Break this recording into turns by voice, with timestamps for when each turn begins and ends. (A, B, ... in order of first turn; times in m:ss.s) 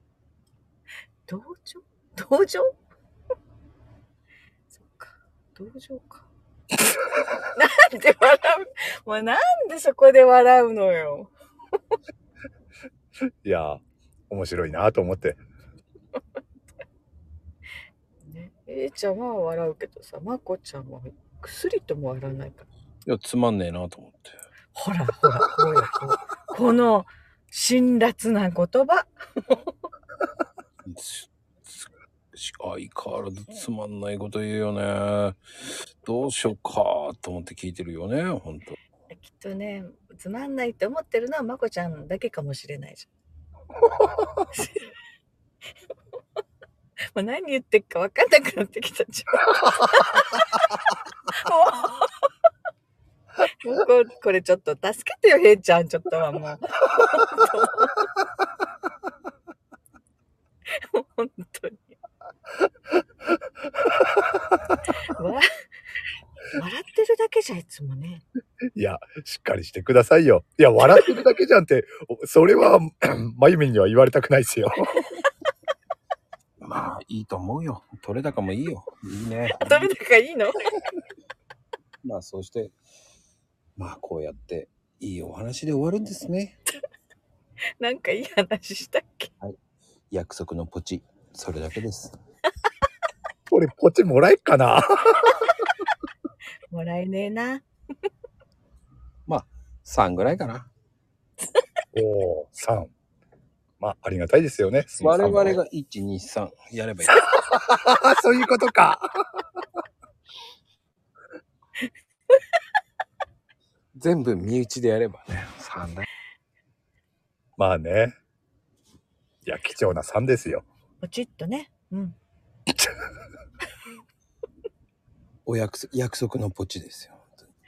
0:01.3-0:02.7 A
0:04.7-0:06.2 A
0:07.4-0:11.3 A
0:13.4-0:15.4 B
0:18.2-0:22.7 A
0:23.0-0:24.4 C
0:24.7-0:29.6 A
0:30.8-0:35.4 C
0:36.0-0:38.8 C
0:39.1-0:43.1 A
0:44.5-0:44.9 A
0:47.1-0:52.3 A
0:53.5-0:58.1 A
1:00.7-1:02.0 A
1:05.1-1:05.5 A
1:06.5-1:08.2 A
1:08.8-1:15.1 B
1:16.6-1:19.9 C
1:19.5-1:20.6 A
1:22.0-1:22.7 C
1:23.8-1:26.6 C
1:27.8-1:29.3 A
1:30.1-1:32.1 C
1:33.5-1:35.4 B
1:36.7-1:37.6 A
1:39.3-1:40.7 C
1:41.9-1:42.9 B
1:43.8-1:45.6 B
1:45.0-1:47.2 C
1:47.1-1:49.1 B
1:54.0-1:56.1 C
1:57.6-1:58.2 B
1:59.4-2:00.6 B
2:01.0-2:02.2 A
2:05.4-2:07.5 C